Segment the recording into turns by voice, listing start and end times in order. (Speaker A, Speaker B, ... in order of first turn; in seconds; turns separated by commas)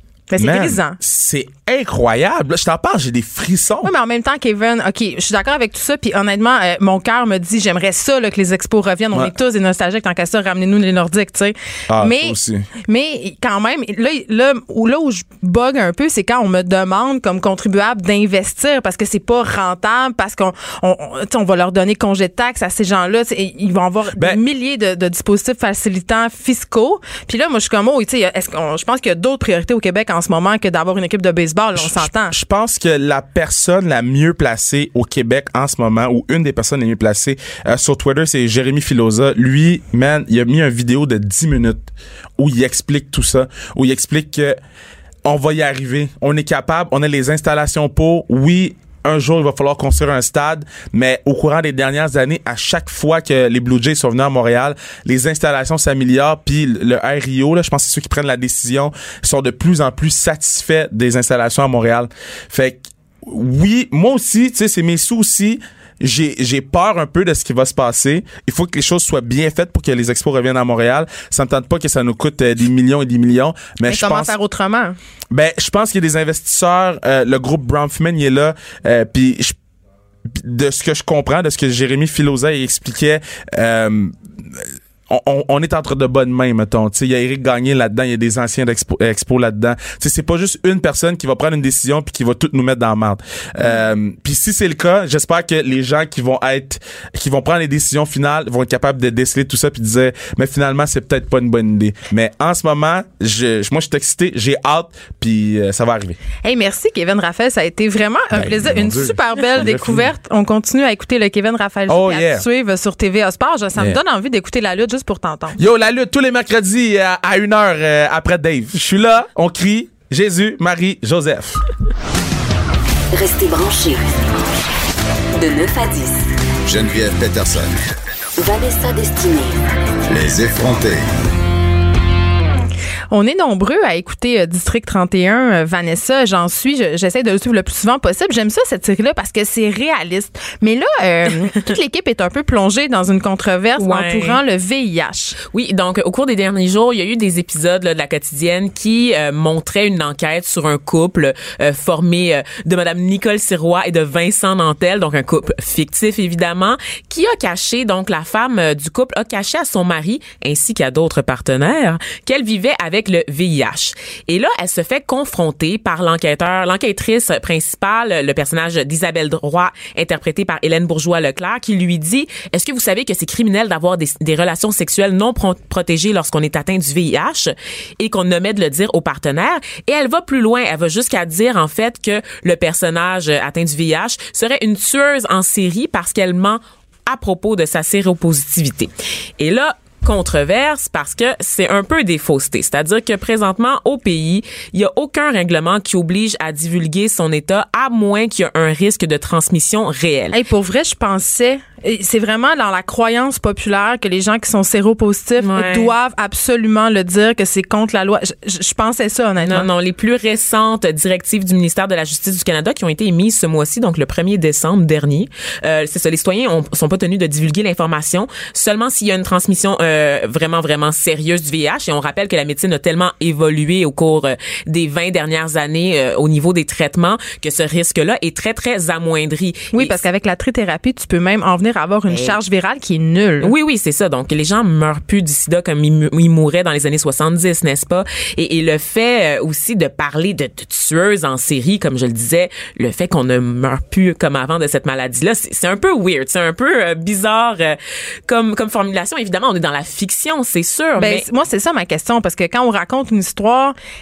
Speaker A: 0.3-1.0, Speaker B: 0.4-3.9, Speaker A: 3.8-32.3, Speaker B: 11.9-12.7, Speaker B: 31.8-44.6, Speaker B: 45.2-74.3, Speaker A: 73.9-75.0, Speaker B: 75.3-79.6, Speaker B: 80.3-106.2, Speaker A: 106.4-115.6, Speaker B: 108.3-110.1, Speaker B: 111.9-112.5, Speaker B: 115.6-121.6, Speaker C: 123.1-124.0, Speaker C: 125.3-126.3, Speaker D: 126.7-127.8, Speaker C: 128.4-129.6, Speaker D: 130.1-131.1, Speaker A: 133.1-145.4, Speaker E: 143.8-144.4, Speaker E: 145.5-200.4, Speaker A: 200.3-209.7, Speaker E: 205.4-205.9, Speaker E: 209.4-230.0, Speaker A: 229.7-233.5, Speaker E: 232.1-232.3, Speaker E: 233.4-251.3, Speaker A: 251.0-253.8